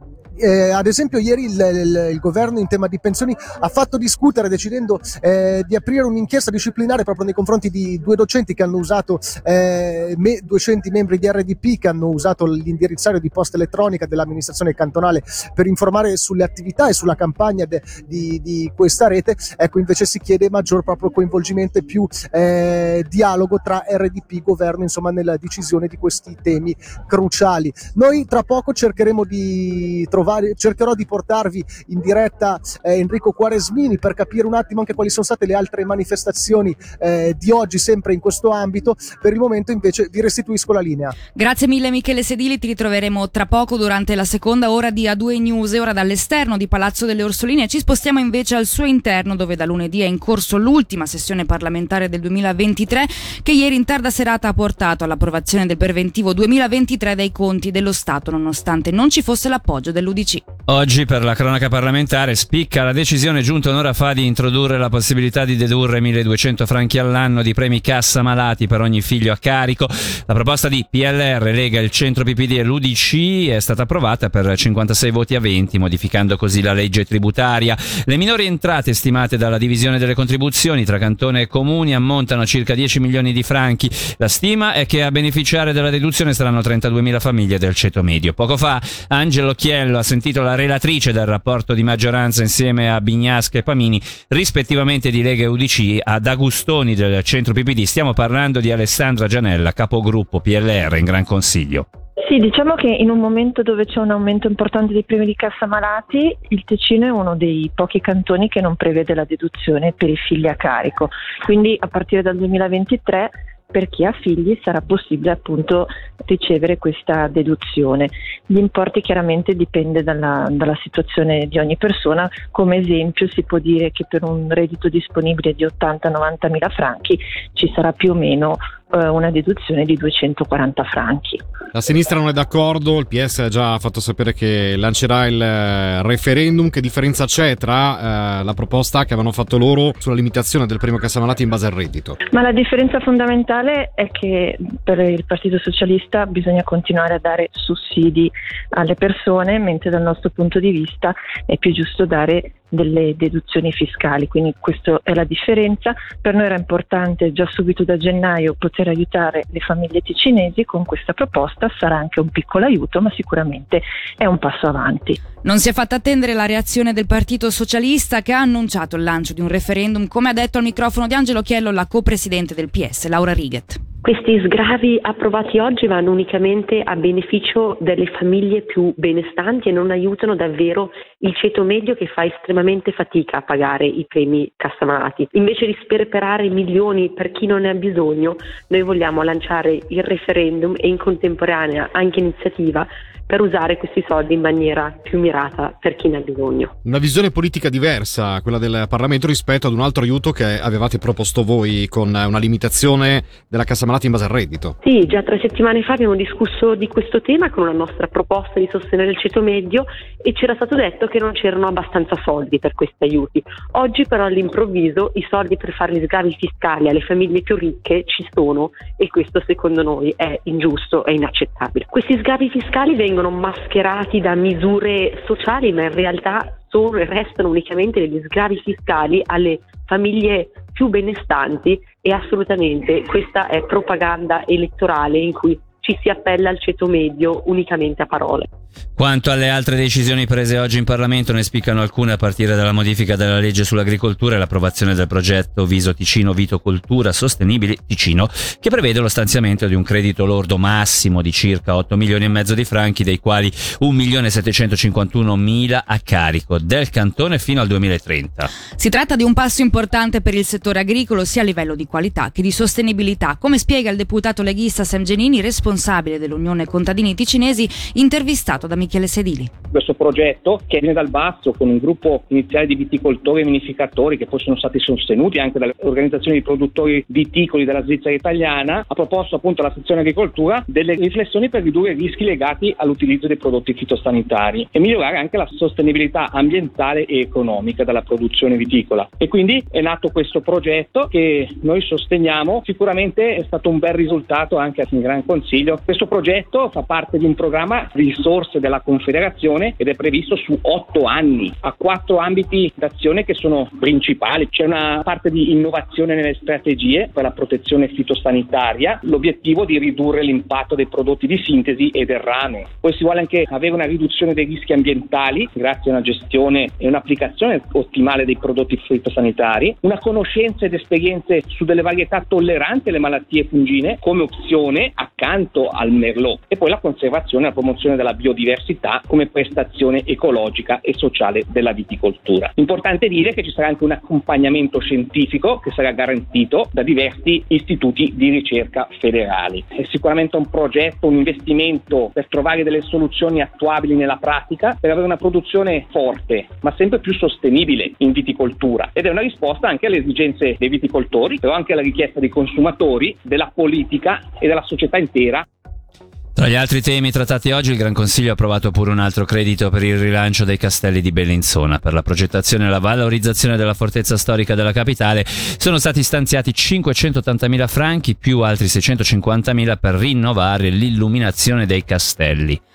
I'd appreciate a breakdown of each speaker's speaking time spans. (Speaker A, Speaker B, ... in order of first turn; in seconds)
Speaker A: 0.4-41.2
Speaker B: 41.4-60.4, 165.4-173.8, 258.8-269.5
Speaker C: 60.7-101.9, 239.0-258.5, 356.4-372.6
Speaker D: 102.2-131.4, 142.3-165.2
Speaker E: 131.7-142.2, 196.8-204.7
Speaker F: 174.0-196.7, 204.8-238.5
Speaker G: 269.7-355.5